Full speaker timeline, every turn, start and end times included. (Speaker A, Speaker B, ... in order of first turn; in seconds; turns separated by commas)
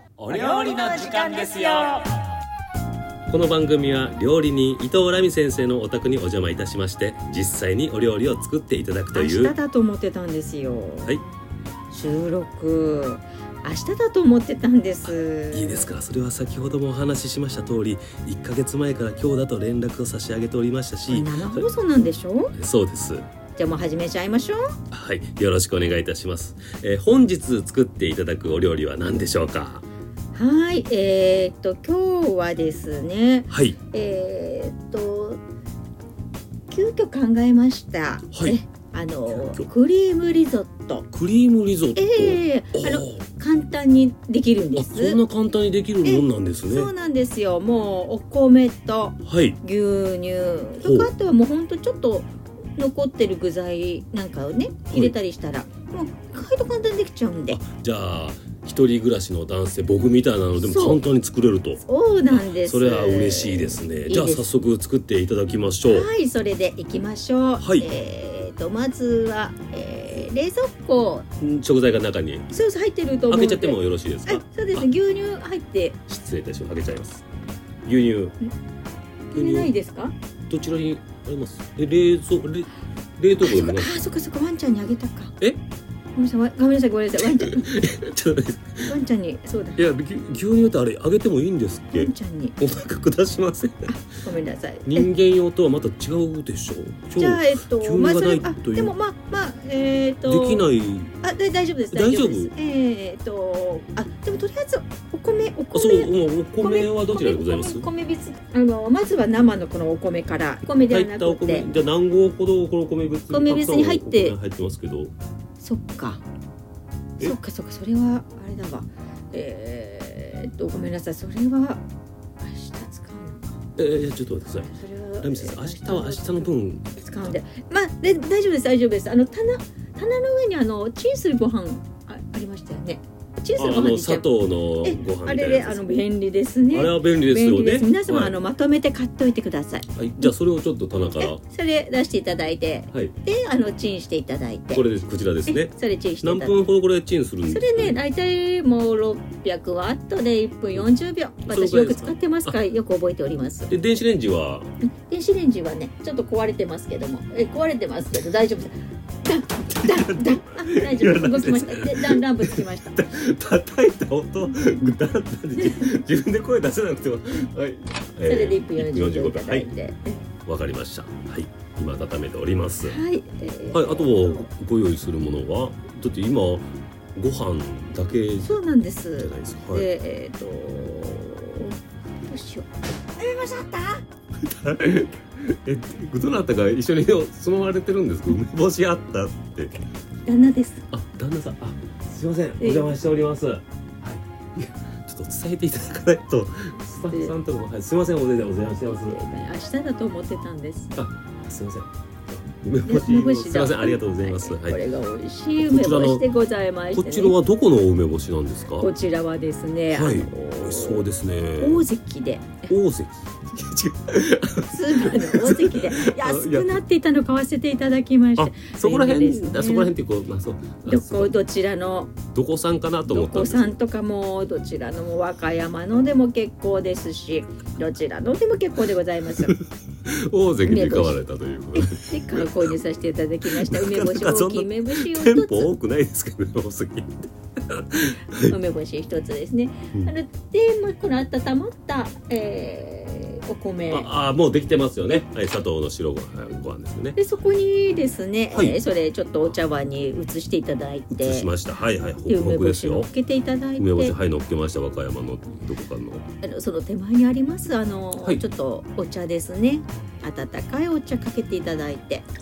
Speaker A: 0.2-2.0, Speaker B: 0.3-2.0, Speaker A: 3.3-9.6, Speaker B: 9.1-11.2, Speaker B: 11.9-15.9, Speaker A: 15.0-21.7, Speaker B: 21.1-22.5, Speaker A: 22.5-23.3, Speaker B: 23.6-24.7, Speaker A: 24.9-29.8, Speaker B: 30.3-35.4, Speaker A: 33.5-33.8, Speaker B: 36.7-41.1, Speaker A: 38.3-38.6, Speaker A: 39.3-39.7, Speaker A: 41.1-43.2, Speaker B: 42.0-45.2, Speaker A: 44.8-46.9, Speaker B: 46.0-57.6, Speaker A: 49.2-49.6, Speaker A: 50.8-51.1, Speaker A: 57.5-66.1, Speaker B: 60.6-61.0, Speaker B: 61.8-64.5, Speaker B: 65.8-71.3, Speaker A: 67.6-67.9, Speaker A: 71.4-72.5, Speaker B: 72.5-76.0, Speaker A: 73.3-74.9, Speaker A: 76.1-77.2, Speaker A: 77.8-78.3, Speaker A: 79.3-79.7, Speaker B: 79.3-80.2, Speaker A: 80.5-83.9, Speaker B: 83.4-85.3, Speaker B: 86.1-87.7, Speaker A: 87.2-88.9, Speaker B: 88.8-89.8, Speaker A: 89.8-93.9, Speaker B: 91.9-92.6, Speaker B: 93.9-95.1, Speaker A: 94.8-98.9, Speaker B: 97.2-100.7, Speaker A: 100.2-101.1, Speaker B: 101.2-111.7, Speaker A: 101.9-102.5, Speaker A: 105.7-107.9, Speaker A: 110.9-115.1, Speaker B: 113.3-114.3, Speaker B: 115.6-116.2, Speaker B: 117.2-121.8, Speaker B: 122.4-123.6, Speaker A: 123.8-126.8, Speaker B: 124.6-134.2, Speaker A: 133.6-135.8, Speaker B: 134.8-140.3, Speaker A: 136.7-138.3, Speaker A: 139.9-141.4, Speaker B: 141.2-144.8, Speaker A: 144.7-148.0, Speaker B: 145.5-146.6, Speaker B: 147.5-153.7, Speaker A: 151.4-152.6, Speaker A: 153.7-154.7, Speaker B: 154.9-163.0, Speaker A: 159.7-169.7, Speaker B: 165.6-165.9, Speaker B: 168.2-170.2, Speaker A: 170.4-173.0, Speaker B: 172.8-174.5, Speaker A: 173.7-178.5, Speaker B: 178.4-184.0, Speaker A: 179.2-179.9, Speaker A: 184.4-189.8, Speaker B: 190.2-190.9, Speaker A: 190.9-199.2, Speaker B: 192.6-193.0, Speaker B: 198.9-200.9, Speaker A: 200.9-204.8, Speaker B: 202.8-207.3, Speaker A: 205.6-206.3, Speaker A: 206.9-208.9, Speaker B: 208.8-211.0, Speaker A: 209.9-211.8, Speaker B: 211.6-212.7, Speaker A: 212.7-216.8, Speaker B: 214.7-219.9, Speaker A: 218.4-221.3, Speaker B: 220.8-222.2, Speaker A: 222.3-223.8, Speaker B: 223.1-229.6, Speaker A: 229.4-232.8, Speaker B: 230.6-231.2, Speaker B: 231.7-235.7, Speaker A: 233.4-238.6, Speaker B: 238.4-244.1, Speaker A: 243.9-247.2, Speaker B: 247.2-251.6, Speaker A: 248.5-248.8, Speaker A: 251.1-253.1, Speaker B: 252.3-254.1, Speaker A: 253.8-256.2, Speaker B: 256.4-262.2